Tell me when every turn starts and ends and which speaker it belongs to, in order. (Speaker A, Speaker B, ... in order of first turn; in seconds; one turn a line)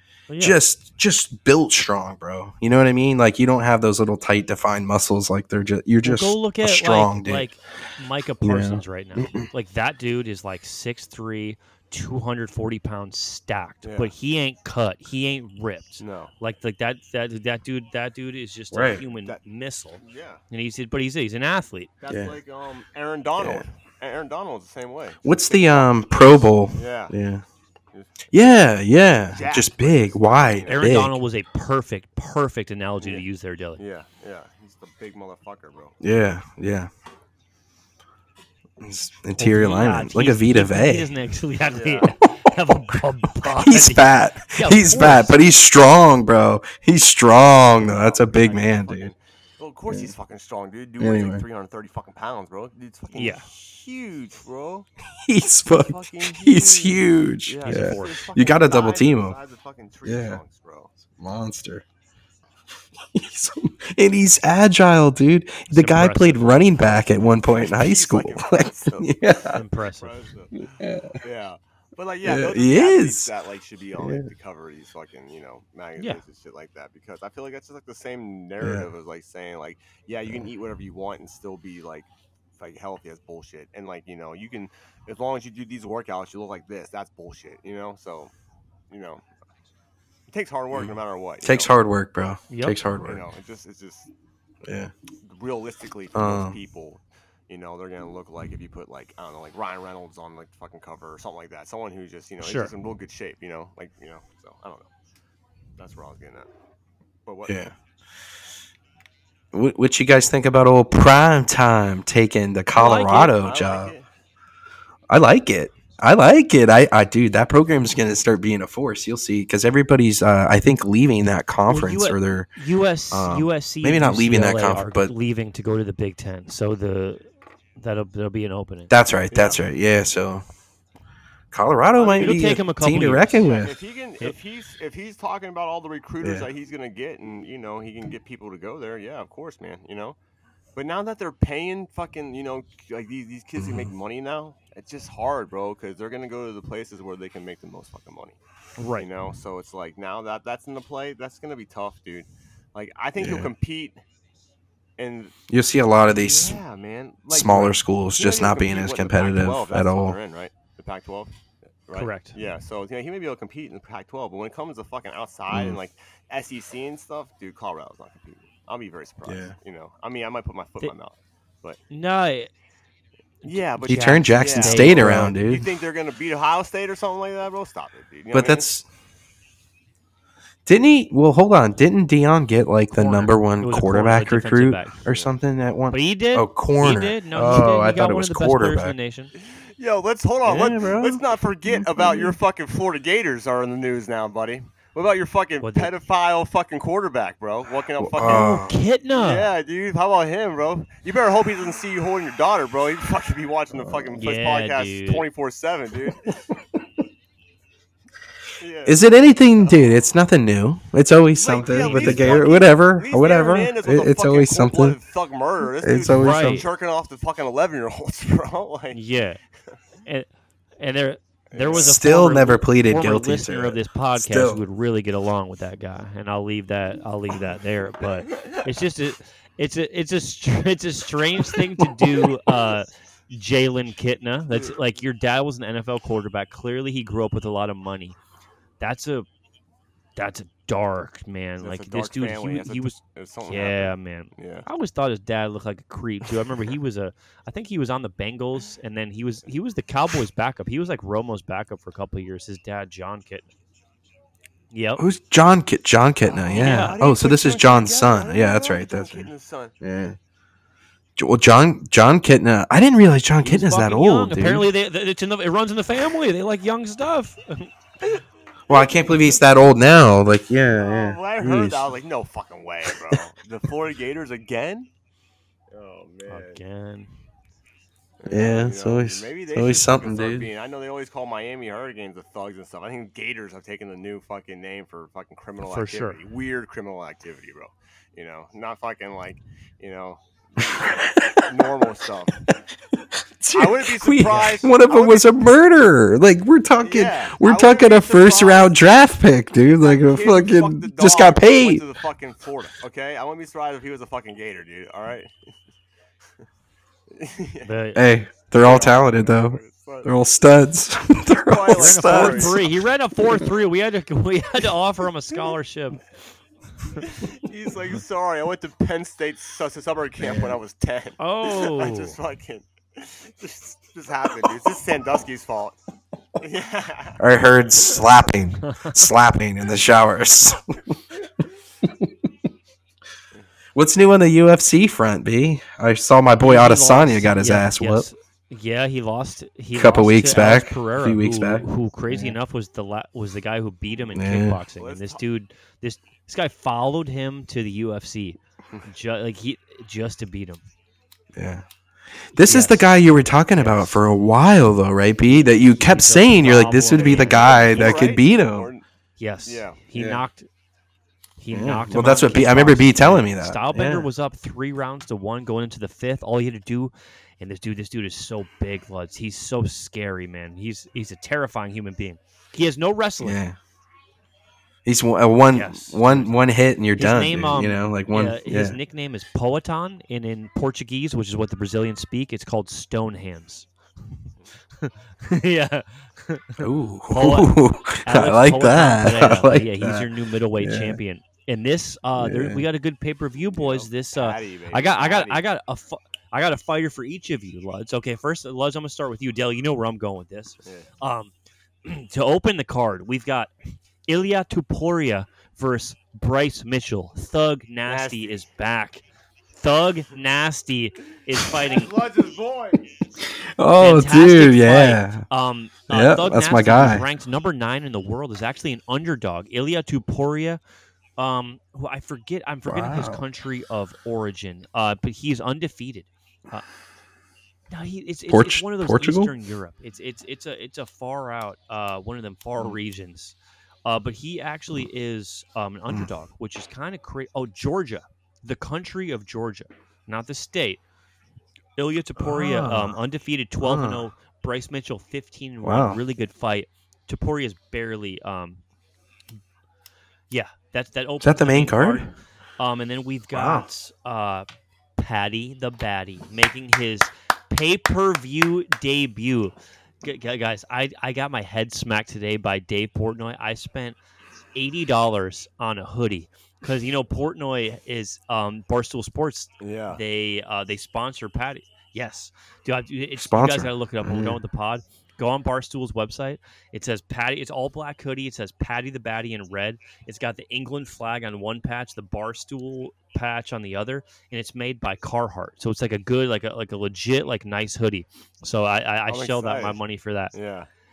Speaker A: 0.3-0.6
Speaker B: 0.4-7.5
Speaker A: 6.0-21.9
Speaker B: 8.4-9.5
Speaker C: 13.8-14.1
Speaker C: 16.0-16.3
Speaker B: 18.7-19.0
Speaker C: 20.0-20.4
Speaker C: 22.0-27.1
Speaker B: 22.1-22.4
Speaker B: 23.4-23.6
Speaker B: 25.2-27.4
Speaker C: 27.9-28.3
Speaker B: 28.3-31.2
Speaker C: 29.3-31.0
Speaker A: 30.7-33.8
Speaker C: 33.8-36.0
Speaker B: 36.0-36.9
Speaker B: 38.8-41.1
Speaker A: 39.4-45.4
Speaker C: 41.7-42.1
Speaker B: 43.4-49.1
Speaker C: 47.8-54.9
Speaker B: 51.0-51.4
Speaker A: 53.1-53.5
Speaker B: 55.3-59.4
Speaker C: 55.7-61.0
Speaker A: 57.7-58.2
Speaker B: 60.0-60.4
Speaker B: 61.2-61.9
Speaker B: 63.1-69.6
Speaker A: 65.7-66.6
Speaker C: 67.4-69.1
Speaker A: 69.5-70.2
Speaker C: 70.0-70.7
Speaker B: 70.6-71.2
Speaker C: 71.2-88.3
Speaker B: 72.2-73.3
Speaker B: 74.0-74.3
Speaker B: 78.6-78.9
Speaker C: 88.9-89.2
Speaker C: 90.3-91.7
Speaker B: 90.7-93.2
Speaker A: 92.5-92.8
Speaker C: 93.0-94.1
Speaker B: 94.6-94.9
Speaker C: 95.2-104.9
Speaker B: 96.1-96.6
Speaker A: 102.4-102.7
Speaker C: 105.8-106.5
Speaker C: 107.3-107.6
Speaker B: 107.5-107.7
Speaker B: 109.5-113.9
Speaker A: 112.8-113.3
Speaker C: 112.9-114.1
Speaker B: 115.1-122.5
Speaker A: 121.7-128.9
Speaker B: 123.1-125.1
Speaker B: 128.9-130.4
Speaker C: 129.3-129.6
Speaker B: 131.5-133.7
Speaker C: 132.0-132.4
Speaker A: 132.2-133.5
Speaker C: 133.4-140.2
Speaker C: 140.8-148.4
Speaker B: 143.6-143.9
Speaker A: 148.8-149.1
Speaker C: 149.0-154.0
Speaker B: 153.2-153.5
Speaker C: 155.0-155.3
Speaker B: 155.5-156.6
Speaker C: 156.1-171.8
Speaker B: 157.3-160.2
Speaker A: 161.9-162.4
Speaker B: 165.5-165.8
Speaker B: 169.2-169.5
Speaker A: 171.9-172.5
Speaker A: 173.4-175.2
Speaker C: 173.4-178.8
Speaker B: 173.9-175.7
Speaker B: 178.3-178.8
Speaker B: 180.7-188.9
Speaker A: 182.9-185.0
Speaker C: 185.0-185.3
Speaker A: 185.9-189.3
Speaker C: 189.4-198.6
Speaker B: 190.4-192.3
Speaker A: 195.6-195.9
Speaker B: 198.0-198.7
Speaker A: 198.2-199.5
Speaker C: 199.1-206.3
Speaker B: 203.7-204.2
Speaker A: 204.2-205.2
Speaker C: 208.6-209.0
Speaker B: 208.9-215.0
Speaker C: 209.6-210.1
Speaker C: 211.4-219.0
Speaker A: 211.8-212.5
Speaker B: 215.6-216.6
Speaker A: 216.1-216.6
Speaker A: 218.9-219.4
Speaker A: 220.1-238.2
Speaker C: 221.5-222.0
Speaker B: 221.7-224.6
Speaker A: 238.8-239.3
Speaker A: 240.2-253.5
Speaker C: 241.6-244.7
Speaker A: 254.7-255.0
Speaker B: 255.0-259.3
Speaker C: 256.2-259.8
Speaker A: 256.5-257.0
Speaker B: 259.8-260.2
Speaker B: 261.2-264.7
Speaker A: 263.4-267.7
Speaker C: 268.0-269.5
Speaker B: 268.7-271.9
Speaker C: 270.7-274.9
Speaker C: 275.7-276.6
Speaker A: 276.3-277.2
Speaker C: 278.2-292.5
Speaker B: 278.3-280.5
Speaker A: 285.6-286.2
Speaker B: 290.7-291.4
Speaker B: 293.4-301.8
Speaker C: 293.5-295.4
Speaker C: 296.8-298.8
Speaker C: 299.6-305.5
Speaker C: 307.1-307.7
Speaker A: 307.6-308.0
Speaker B: 308.0-312.6
Speaker C: 308.5-310.1
Speaker C: 311.5-312.6
Speaker A: 311.7-316.0
Speaker C: 317.0-325.8
Speaker B: 320.2-320.6
Speaker A: 321.2-322.1
Speaker C: 326.4-327.2
Speaker B: 327.2-331.0
Speaker A: 328.7-329.1
Speaker B: 331.8-332.1
Speaker B: 333.8-338.1
Speaker A: 336.4-350.6
Speaker B: 339.8-342.4
Speaker B: 344.1-344.6
Speaker C: 344.8-345.2
Speaker B: 351.4-351.7
Speaker B: 352.3-358.7
Speaker A: 352.4-352.9
Speaker A: 353.5-354.0
Speaker A: 355.3-357.9
Speaker C: 356.9-358.8
Speaker A: 359.2-360.5
Speaker C: 359.4-359.8
Speaker B: 359.9-360.2
Speaker A: 361.4-373.4
Speaker B: 361.5-364.1
Speaker B: 373.2-373.6
Speaker B: 374.9-378.8
Speaker A: 375.5-376.4
Speaker A: 377.0-383.7
Speaker A: 384.8-401.3
Speaker B: 386.6-390.1
Speaker B: 390.6-391.0
Speaker B: 392.2-392.7
Speaker C: 393.5-395.5
Speaker A: 401.9-403.5
Speaker A: 404.1-409.0
Speaker C: 407.9-408.4
Speaker A: 409.6-411.9
Speaker C: 411.6-412.9
Speaker B: 413.2-415.2
Speaker A: 413.8-420.6
Speaker B: 415.9-417.1
Speaker A: 421.2-426.7
Speaker B: 422.7-423.2
Speaker A: 427.7-440.8
Speaker B: 428.3-429.3
Speaker A: 441.8-448.6
Speaker B: 442.2-443.0
Speaker B: 443.6-444.1
Speaker B: 445.6-446.0
Speaker A: 450.3-454.5
Speaker B: 451.2-452.1
Speaker B: 453.3-453.7
Speaker A: 455.0-464.0
Speaker A: 464.6-490.3
Speaker C: 469.6-470.0
Speaker B: 473.2-474.4
Speaker C: 489.1-489.8
Speaker C: 490.3-490.7